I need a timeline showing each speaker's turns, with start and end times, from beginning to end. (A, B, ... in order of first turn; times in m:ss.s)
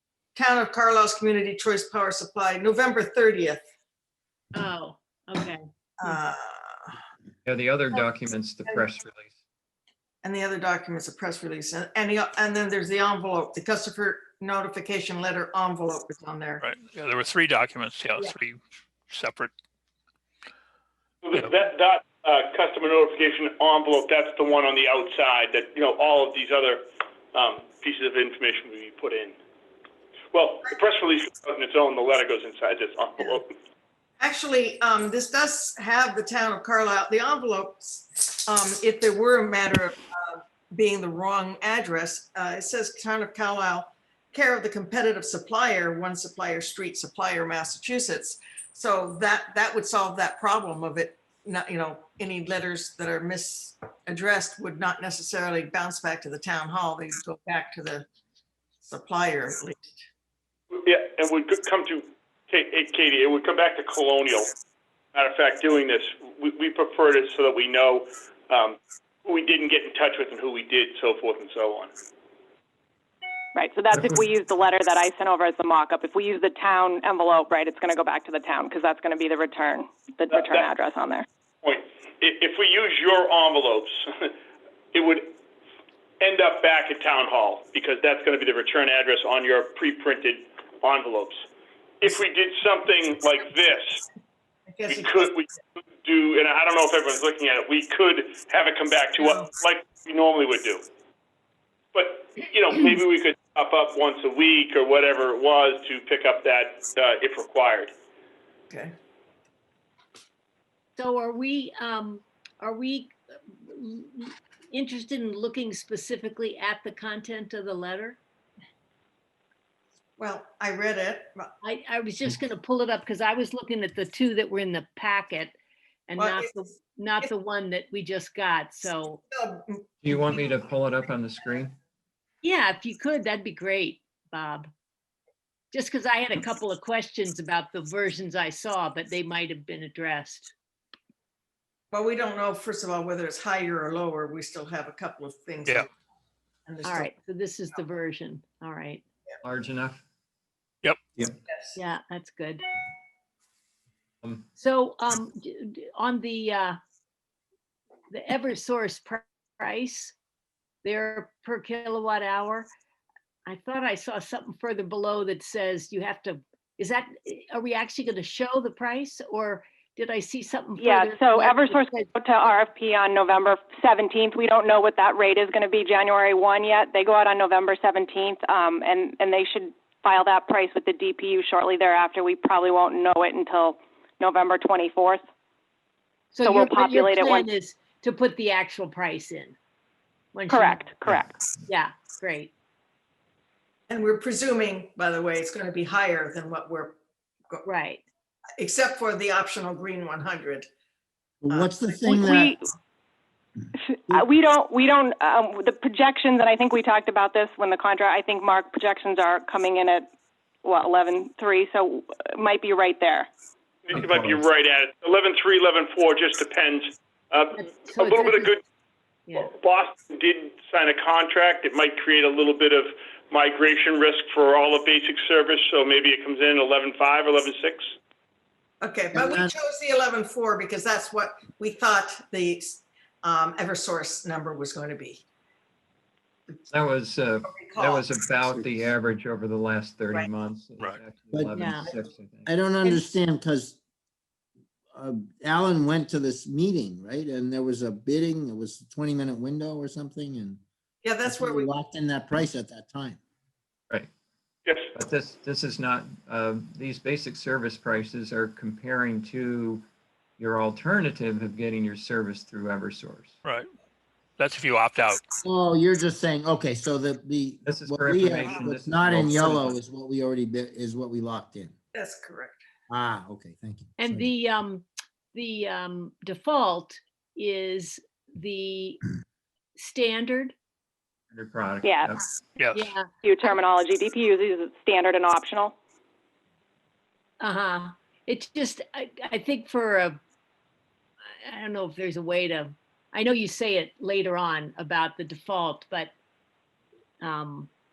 0:00.4-0:03.6 A
0:04.5-0:06.2 B
0:06.0-0:06.9 A
0:07.4-0:09.4 C
0:10.2-0:16.7 A
0:16.6-0:19.5 D
0:21.2-0:29.4 E
0:30.3-0:33.5 E
0:34.2-0:58.0 A
0:58.8-1:00.0 A
1:00.7-1:04.5 E
1:05.1-1:11.9 E
1:13.6-1:21.2 F
1:20.3-1:20.7 E
1:21.6-1:24.3 E
1:24.9-1:25.3 E
1:26.2-1:31.4 E
1:32.0-1:34.0 E
1:34.7-1:35.3 A
1:34.9-1:35.5 E
1:36.0-1:40.8 E
1:39.2-1:39.5 A
1:41.9-1:47.9 E
1:51.0-1:58.2 B
2:00.2-2:01.5 A
2:01.6-2:05.6 B
2:06.1-2:09.2 B
2:06.2-2:06.5 A
2:09.3-2:09.8 A
2:10.0-2:11.8 C
2:12.4-2:14.7 B
2:15.7-2:20.5 B
2:21.9-2:25.9 A
2:26.7-2:27.1 A
2:26.8-2:29.0 B
2:29.4-2:30.0 C
2:31.5-2:31.7 A
2:31.8-2:32.6 B
2:34.6-2:36.8 B
2:38.1-2:40.2 B
2:40.8-2:42.7 B
2:43.5-2:52.1 B
2:50.8-3:05.2 F
3:06.3-3:09.6 B
3:06.4-3:07.5 F
3:10.3-3:10.9 B
3:10.5-3:11.4 F
3:11.6-3:12.5 B
3:13.9-3:17.0 A
3:17.6-3:18.0 B
3:18.6-3:20.7 A
3:21.4-3:22.6 G
3:21.5-3:22.3 A
3:22.2-3:22.6 F
3:23.8-3:30.1 F
3:30.6-3:33.3 F
3:33.9-3:38.6 E
3:33.9-3:34.4 C
3:37.6-3:38.6 B
3:39.3-3:39.5 B
3:39.3-3:47.9 E
3:48.8-3:55.2 A
3:49.1-3:49.5 G
3:56.7-4:02.6 C
3:57.5-3:58.1 A
4:01.3-4:03.8 G
4:01.6-4:01.9 B
4:04.9-4:10.6 G
4:11.0-4:11.7 A
4:11.3-4:13.2 G
4:14.9-4:19.8 C
4:20.4-4:23.4 C
4:23.4-4:23.7 D
4:24.4-4:25.2 D
4:25.4-4:31.7 G
4:27.6-4:29.8 C
4:31.9-4:32.6 A
4:32.9-4:34.3 G
4:34.0-4:39.0 B
4:39.8-4:40.6 B
4:41.3-4:42.3 C
4:41.8-4:42.1 F
4:42.6-4:42.9 D
4:42.7-4:43.1 B
4:43.2-4:45.8 F
4:47.4-4:50.2 B
4:51.4-4:56.1 B
4:57.2-4:57.7 B